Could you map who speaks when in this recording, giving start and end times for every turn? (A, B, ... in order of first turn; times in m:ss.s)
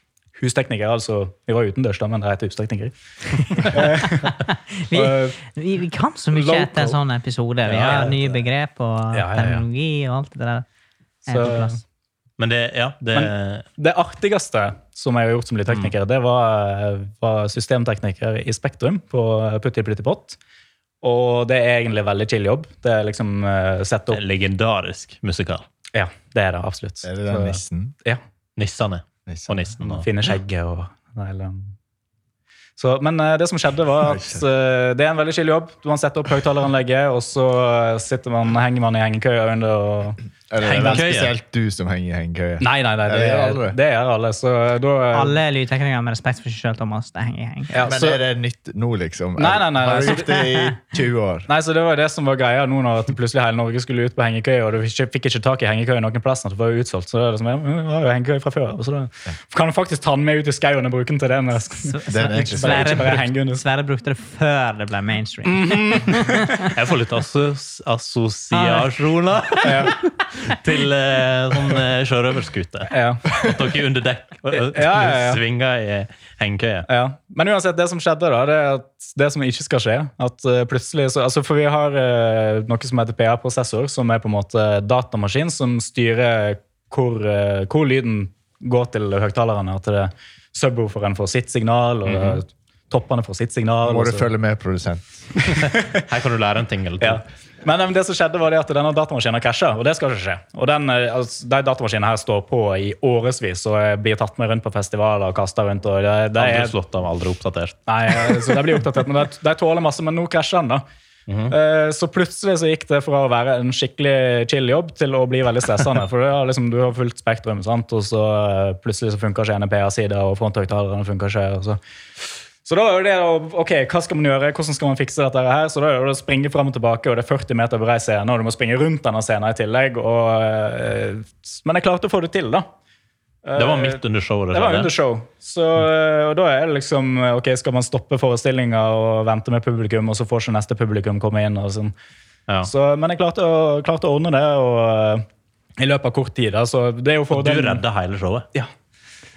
0:00.4-0:04.4 A
0:03.6-0:10.7 B
0:04.9-0:05.4 A
0:06.3-0:07.0 A
0:07.7-0:08.3 A
0:07.7-0:08.1 C
0:09.1-0:09.7 A
0:11.3-0:11.8 A
0:11.3-0:11.8 B
0:12.4-0:13.7 C
0:13.1-0:20.4 A
0:21.0-0:24.2 A
0:24.1-0:25.7 C
0:25.9-0:28.2 A
0:27.0-0:27.9 D
0:28.6-0:30.1 C
0:29.3-0:29.7 D
0:29.8-0:31.8 A
0:32.8-0:41.0 A
0:34.0-0:34.4 D
0:40.5-0:43.8 D
0:40.6-0:41.3 C
0:42.6-0:45.4 A
0:45.1-0:47.7 B
0:47.7-0:48.2 A
0:47.8-0:51.5 D
0:49.4-0:50.4 A
0:50.3-0:50.7 B
0:51.5-1:03.6 A
1:01.8-1:06.7 B
1:02.1-1:03.1 D
1:05.4-1:06.7 A
1:06.5-1:16.9 C
1:08.5-1:08.9 B
1:09.6-1:10.0 A
1:12.9-1:13.6 A
1:14.5-1:15.4 A
1:16.9-1:34.3 A
1:32.1-1:32.4 C
1:33.8-1:35.3 D
1:35.7-1:37.2 C
1:37.0-1:46.7 A
1:46.4-1:48.5 C
1:47.9-1:50.8 A
1:51.3-1:51.5 C
1:51.5-2:01.8 A
2:02.6-2:12.7 A
2:13.4-2:21.9 A
2:13.6-2:14.9 C
2:22.6-2:25.3 A
2:25.8-2:27.8 A
2:27.3-2:28.5 C